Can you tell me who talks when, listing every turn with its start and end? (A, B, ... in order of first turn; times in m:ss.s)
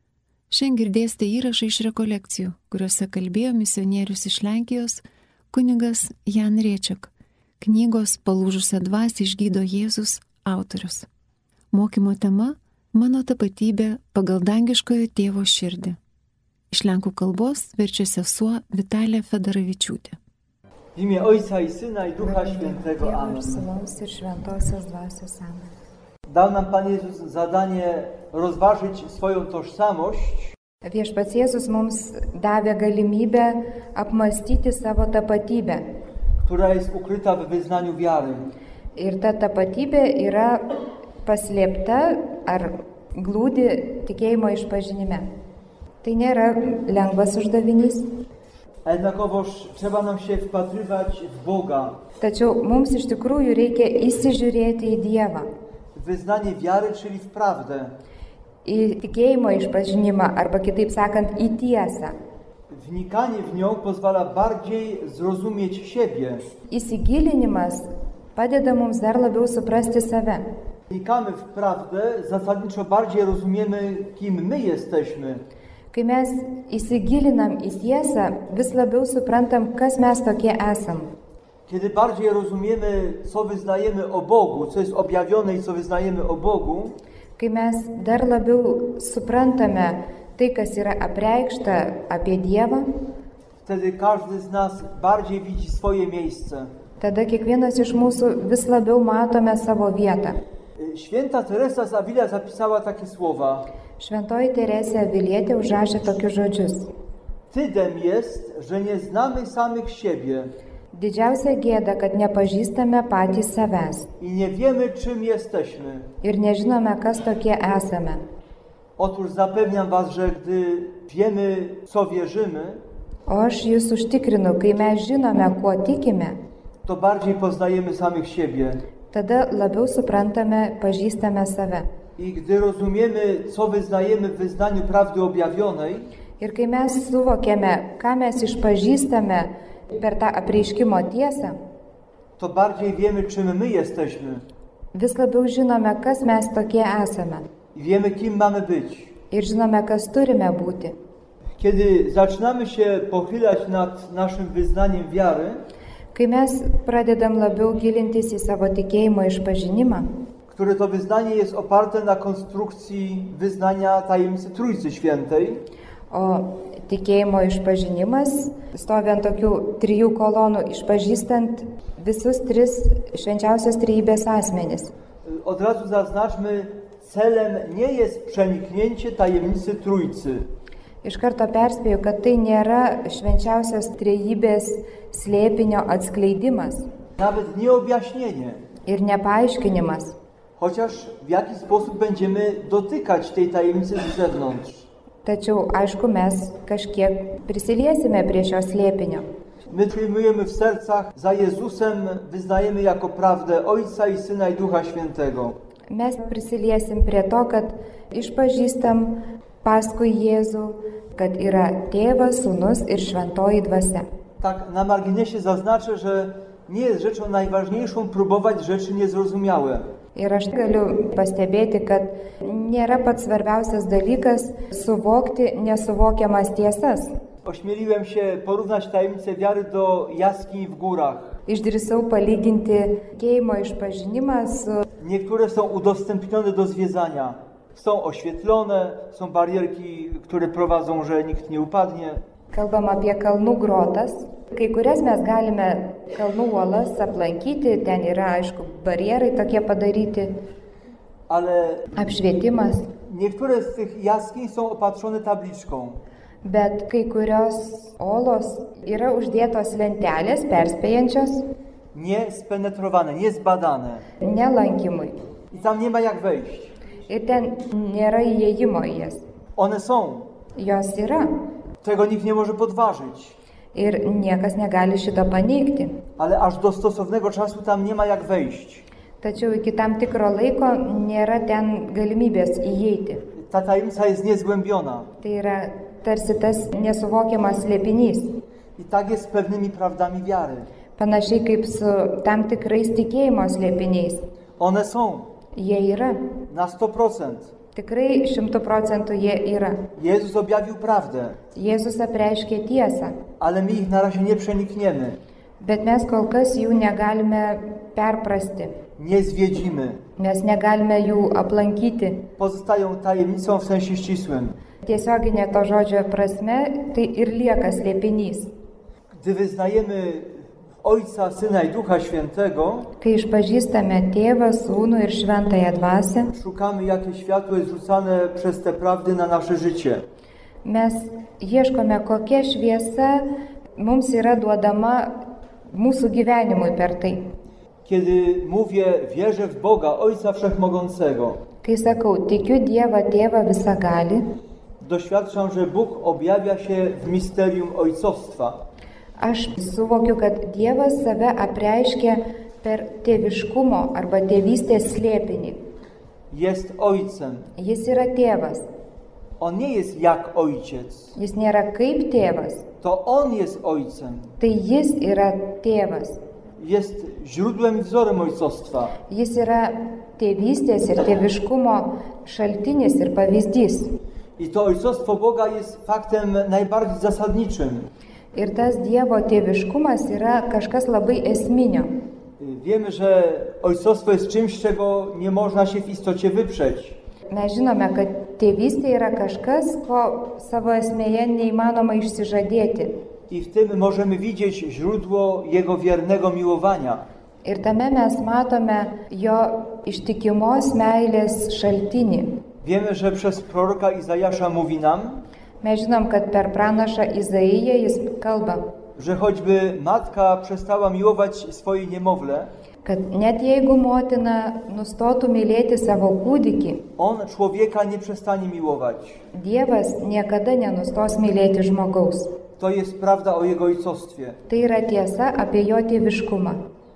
0:00.5-0:11.1 A
0:11.7-0:16.0 A
0:16.7-0:20.2 A
0:21.0-0:23.7 B
0:22.2-0:25.7 C
0:26.3-0:30.5 B
0:30.8-0:35.8 C
0:36.4-0:38.5 B
0:39.0-0:45.3 C
0:46.0-0:48.2 C
0:48.8-0:52.0 B
0:52.2-0:55.5 C
0:56.0-0:58.0 B
0:58.6-1:02.1 C
1:02.7-1:06.5 B
1:06.7-1:10.4 C
1:10.9-1:15.4 B
1:15.9-1:21.1 C
1:21.7-1:27.0 B
1:27.4-1:32.9 C
1:33.6-1:36.7 B
1:37.0-1:40.4 C
1:40.8-1:43.7 B
1:44.0-1:46.9 C
1:47.5-1:50.5 B
1:50.9-1:54.1 C
1:54.2-1:56.1 B
1:56.2-1:58.2 C
1:59.0-2:02.8 B
2:03.3-2:06.4 C
2:06.8-2:08.8 B
2:09.1-2:11.9 C
2:12.2-2:16.1 B
2:16.4-2:21.6 C
2:22.4-2:24.4 B
2:25.0-2:27.4 C
2:27.7-2:29.1 B
2:29.3-2:31.0 C
2:31.6-2:35.6 B
2:36.2-2:40.1 C
2:40.5-2:45.6 B
2:46.1-2:54.9 C
2:55.2-3:00.5 B
3:01.0-3:06.9 C
3:07.2-3:08.6 B
3:08.9-3:10.2 C
3:10.6-3:14.9 B
3:15.2-3:19.2 C
3:19.7-3:25.6 B
3:25.9-3:34.1 C
3:34.4-3:39.9 B
3:40.2-3:47.2 C
3:47.4-3:51.4 B
3:51.5-3:54.9 C
3:55.0-4:02.2 B
4:02.5-4:10.4 C
4:11.3-4:11.9 B
4:12.0-4:12.9 C
4:13.1-4:16.0 B
4:16.4-4:21.4 C
4:21.9-4:24.0 B
4:24.2-4:25.2 C
4:25.5-4:26.7 B
4:27.1-4:29.2 C
4:29.6-4:30.3 B
4:30.6-4:31.3 C
4:31.8-4:33.4 B
4:33.8-4:36.0 C
4:36.2-4:38.8 B
4:39.2-4:43.2 C
4:43.4-4:45.1 B
4:45.2-4:48.4 C
4:48.8-4:50.7 B
4:51.0-4:54.2 C
4:54.6-4:55.3 B
4:55.6-4:56.3 C
4:56.5-4:57.5 B
4:57.7-4:59.9 C
5:00.0-5:01.4 B
5:01.5-5:03.2 C
5:03.4-5:05.2 B
5:05.6-5:08.8 C
5:09.0-5:10.0 B
5:10.2-5:12.3 C
5:12.4-5:14.6 B
5:14.8-5:18.5 C
5:19.1-5:22.9 B
5:23.0-5:26.3 C
5:26.3-5:30.0 B
5:30.6-5:35.1 C
5:35.7-5:37.2 C
5:37.9-5:41.4 B
5:41.6-5:44.2 C
5:44.8-5:48.6 B
5:49.2-5:55.6 C
5:56.3-5:57.5 B
5:57.6-5:58.6 C
5:59.4-6:01.1 B
6:01.2-6:02.7 C
6:02.8-6:04.3 B
6:04.4-6:06.2 C
6:06.6-6:09.0 B
6:09.1-6:14.0 C
6:14.4-6:17.9 B
6:18.4-6:21.9 C
6:22.4-6:27.0 B
6:27.3-6:33.0 C
6:33.3-6:37.0 B
6:37.4-6:42.4 C
6:42.6-6:45.2 B
6:45.6-6:48.7 C
6:49.0-6:52.5 B
6:52.8-6:56.9 C
6:57.0-6:59.2 B
6:59.3-7:02.4 C
7:02.6-7:04.4 B
7:04.5-7:06.6 C